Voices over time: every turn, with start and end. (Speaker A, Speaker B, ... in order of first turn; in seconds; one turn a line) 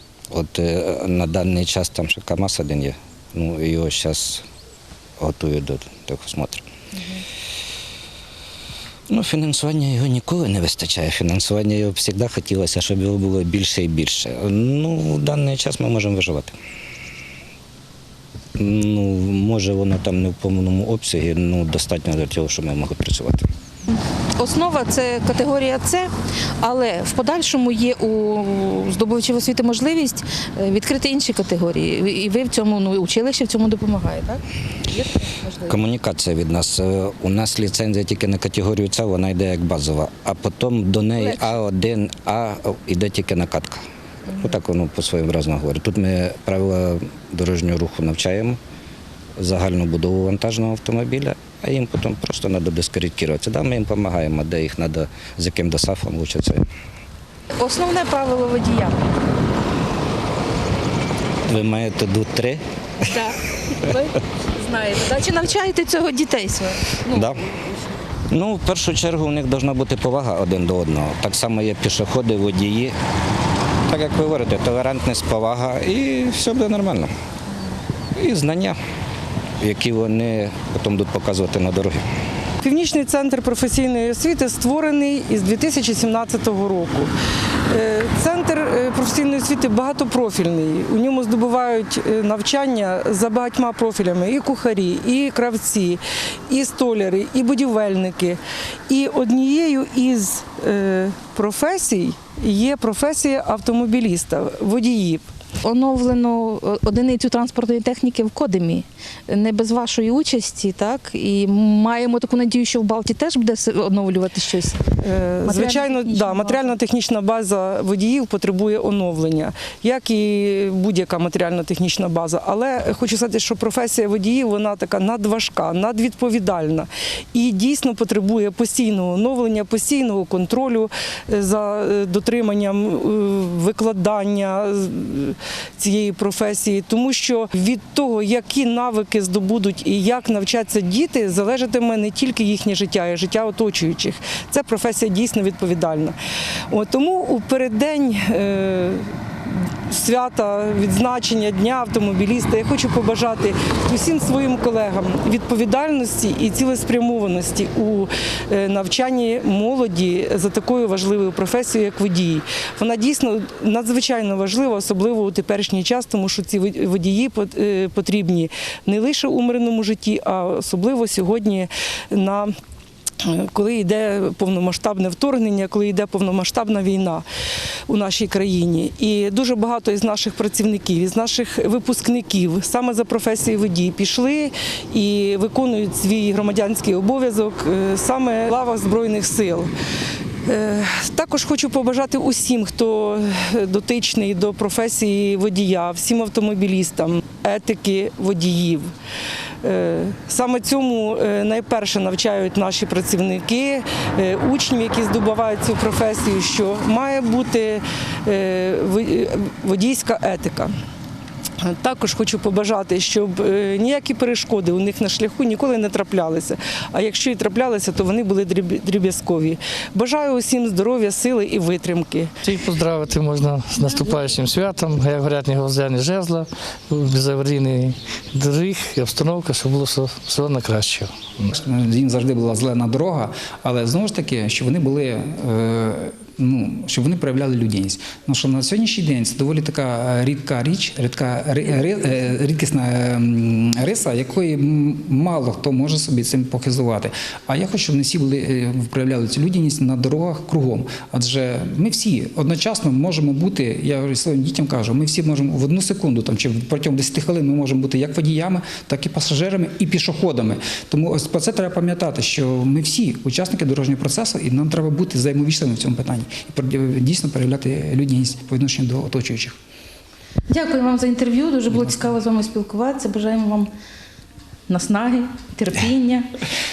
Speaker A: 0.3-4.5
Speaker A: 5.2-6.6
Speaker B: 6.9-7.2
Speaker A: 9.1-16.6
Speaker A: 18.6-23.5
Speaker B: 23.9-26.1
Speaker B: 26.6-35.8
Speaker A: 35.7-43.8
Speaker B: 41.1-41.5
Speaker B: 44.3-44.6
Speaker A: 44.4-48.6
Speaker A: 49.4-56.7
Speaker B: 57.6-59.0
Speaker A: 61.5-62.6
Speaker B: 63.0-67.2
Speaker A: 67.1-67.5
Speaker A: 68.3-73.0
Speaker A: 73.9-77.1
Speaker A: 78.1-78.8
Speaker A: 79.6-82.0
Speaker C: 82.6-87.1
Speaker C: 87.7-105.3
Speaker B: 105.6-114.8
Speaker C: 115.0-146.2
Speaker B: 115.4-116.8
Speaker C: 146.7-172.5
Speaker C: 173.2-177.2
Speaker C: 177.9-189.7
Speaker C: 190.4-198.9
Speaker C: 199.6-210.7
Speaker C: 211.6-222.3
Speaker D: 222.4-231.5
Speaker E: 231.5-269.5
Speaker B: 270.5-273.7
Speaker B: 274.7-276.3